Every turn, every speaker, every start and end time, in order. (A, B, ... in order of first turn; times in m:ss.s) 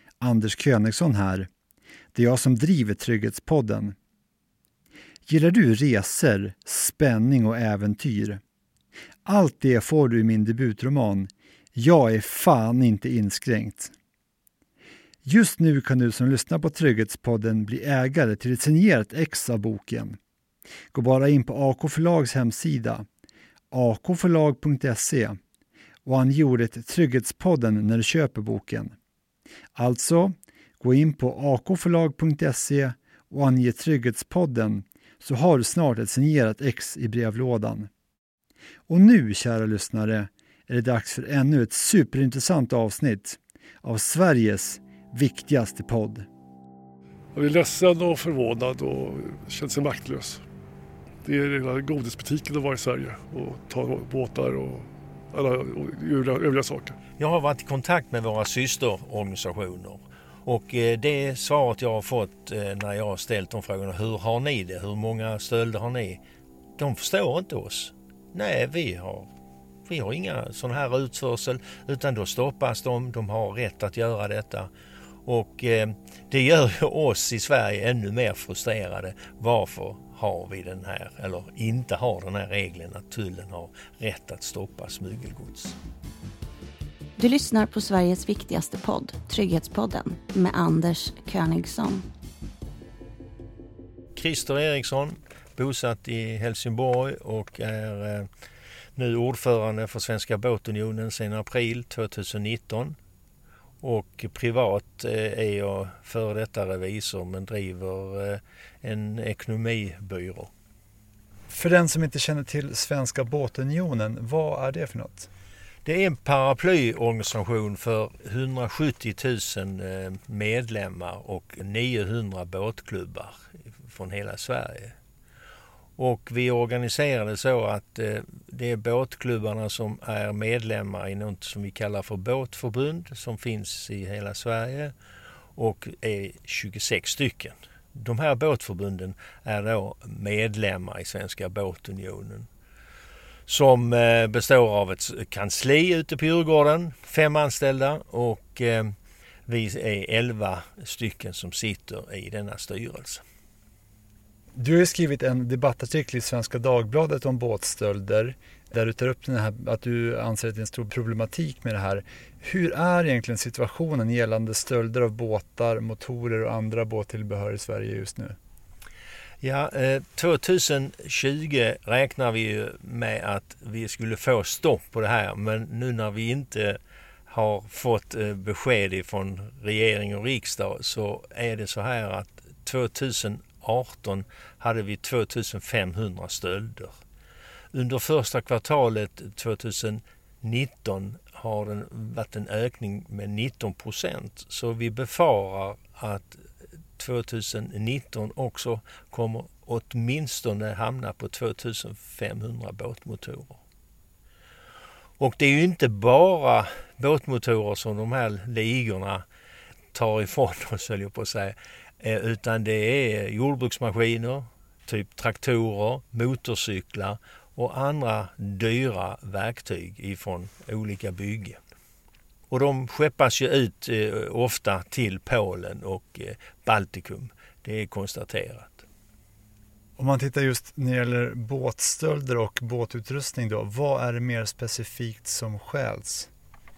0:00.2-0:01.5 A
0:02.1-0:04.0 A
0:05.3-0:08.4 A
0:09.2-0:13.9 A
0:15.2-0:20.2 A
0:20.9-0:23.0 A
0:23.7-0:25.4 A
0:26.0-0:28.9 A
0:29.7-0:37.9 A
0:38.9-0:46.3 A
0:47.3-0:50.4 B
0:51.2-0:57.0 B
0:57.2-1:06.2 C
1:06.8-1:09.3 C
1:09.8-1:14.7 C
1:15.2-1:25.8 C
1:27.2-1:32.0 D
1:34.2-1:38.3 C
1:39.0-1:43.0 C
1:43.8-1:50.5 C
1:51.5-1:55.3 A
1:55.8-2:04.9 C
2:06.0-2:14.9 C
2:15.6-2:22.5 C
2:23.5-2:28.9 C
2:29.4-2:33.2 C
2:34.6-2:48.4 A
2:49.4-3:06.9 C
3:07.7-3:16.4 C
3:17.0-3:23.6 C
3:25.2-3:29.2 C
3:29.9-3:41.6 C
3:42.5-3:48.8 C
3:50.0-3:56.3 A